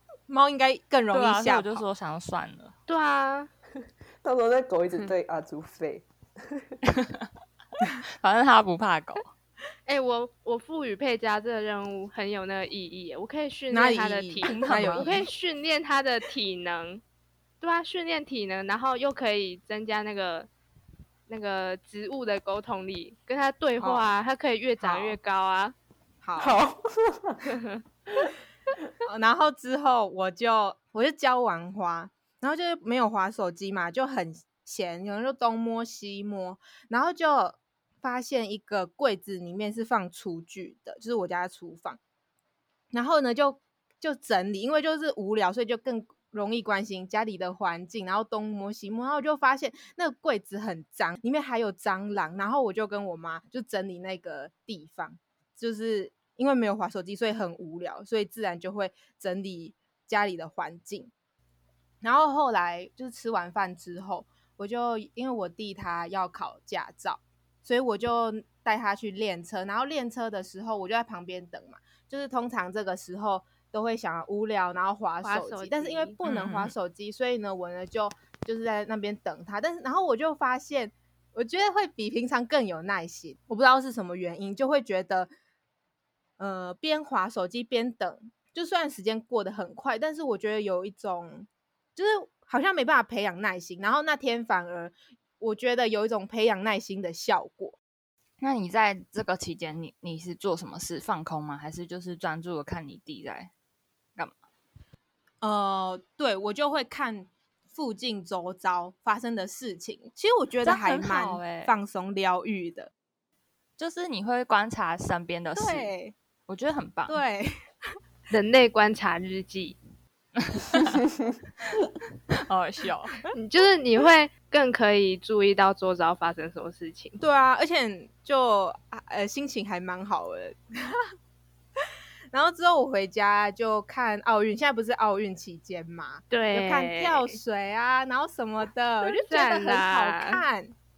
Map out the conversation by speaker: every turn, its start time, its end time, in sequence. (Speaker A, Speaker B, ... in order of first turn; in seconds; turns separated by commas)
Speaker A: 0.3-1.9, Speaker B: 1.1-2.7, Speaker C: 2.9-3.5, Speaker D: 4.2-6.7, Speaker B: 7.0-7.3, Speaker B: 8.2-9.3, Speaker C: 9.9-17.0, Speaker A: 13.7-15.2, Speaker B: 14.4-15.2, Speaker C: 17.6-20.5, Speaker C: 21.3-25.8, Speaker A: 23.8-24.1, Speaker A: 24.8-25.2, Speaker A: 26.2-26.6, Speaker D: 26.4-27.5, Speaker A: 29.1-42.0, Speaker A: 42.9-61.1, Speaker A: 62.0-85.3, Speaker C: 75.2-76.2, Speaker B: 76.3-76.7, Speaker A: 86.4-97.8, Speaker B: 98.4-103.5, Speaker A: 105.4-112.9, Speaker B: 110.6-111.8, Speaker B: 113.8-115.9, Speaker A: 115.5-116.1, Speaker B: 116.5-117.2, Speaker A: 117.1-117.6, Speaker C: 118.3-119.8, Speaker B: 120.4-121.0, Speaker B: 122.3-123.2, Speaker C: 123.3-127.2, Speaker A: 127.2-131.0, Speaker A: 132.3-140.8, Speaker C: 136.3-137.4, Speaker C: 139.1-140.4